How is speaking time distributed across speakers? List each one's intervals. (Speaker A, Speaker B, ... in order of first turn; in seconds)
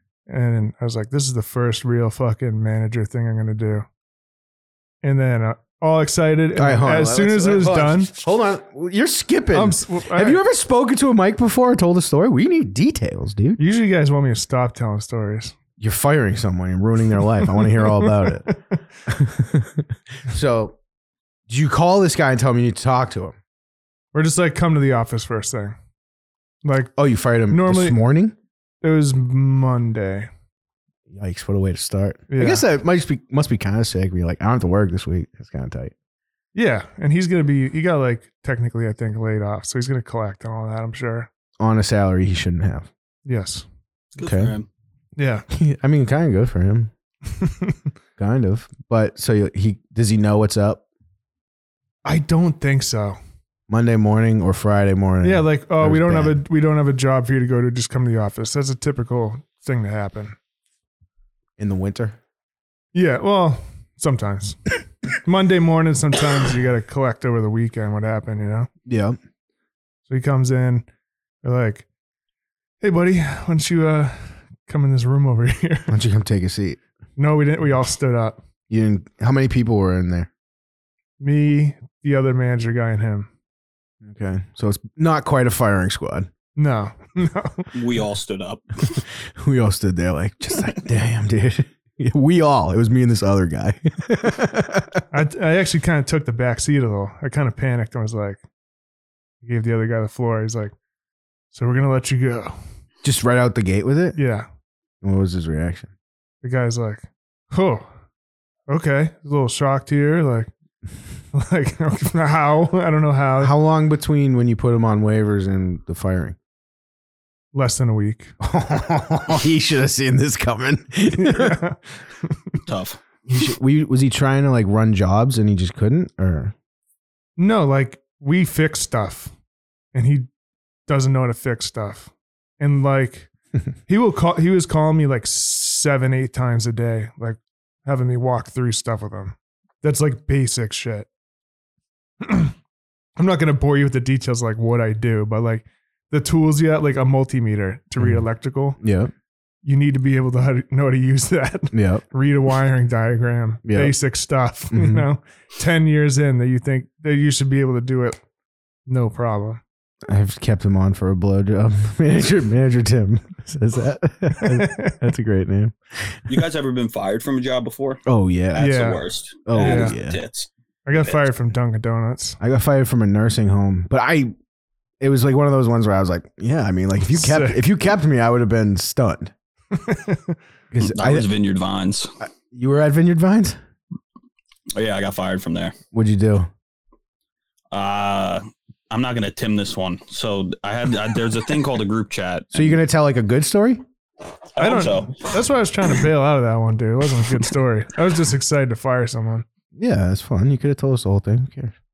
Speaker A: 0.3-3.9, 5.0-8.1, 9.5-10.4, 13.6-15.5, 17.8-18.7, 24.1-25.8, 26.6-26.9, 27.5-28.0, 28.8-30.3, 32.3-32.6, 36.5-41.3, 43.3-43.6, 45.2-45.5, 47.4-47.8, 52.0-53.2, 55.2-60.4, 62.9-64.6, 65.2-68.7, 70.1-70.9, 71.4-71.8, 72.8-75.9, 77.2-78.4, 81.2-83.3, 86.6-87.7, 95.1-98.4, 99.4-100.7, 101.5-102.5, 104.2-104.5, 106.4-107.9, 108.7-110.5, 111.3-113.5, 117.5-118.3, 121.2-122.5, 127.4-129.3, 129.9-130.3, 130.9-133.3, 133.9-141.1, 142.2-142.5, 143.2-148.8, 149.6-158.2, 158.9-159.6, 164.3-165.0, 168.6-169.0, 169.6-170.0, 170.9-172.4, 177.0-177.6, 179.7-180.4, 194.6-199.4
Speaker B: 6.6-13.6, 15.8-20.8, 21.5-23.4, 27.0-28.4, 31.1-35.9, 41.6-42.9, 44.2-44.6, 45.5-46.9, 48.2-50.8, 53.7-56.4, 61.6-62.2, 68.9-69.2, 75.9-76.8, 78.7-80.3, 84.0-86.3, 89.3-95.0, 103.0-104.2, 105.0-105.9, 113.4-116.4, 118.4-121.6, 123.3-126.5, 148.0-148.2, 148.8-149.1, 151.7-152.0, 153.7-154.0, 154.7-155.1, 160.1-166.4, 168.1-168.8, 169.5-170.2, 172.4-174.3, 175.0-179.3, 180.7-181.3, 182.2-183.6, 185.9-186.5, 192.5-193.8, 199.8-201.7
Speaker C: 44.2-44.7, 87.7-89.0, 122.7-123.0, 166.3-168.0, 168.5-171.3, 180.8-182.1, 184.8-185.8, 187.7-192.8, 194.6-195.3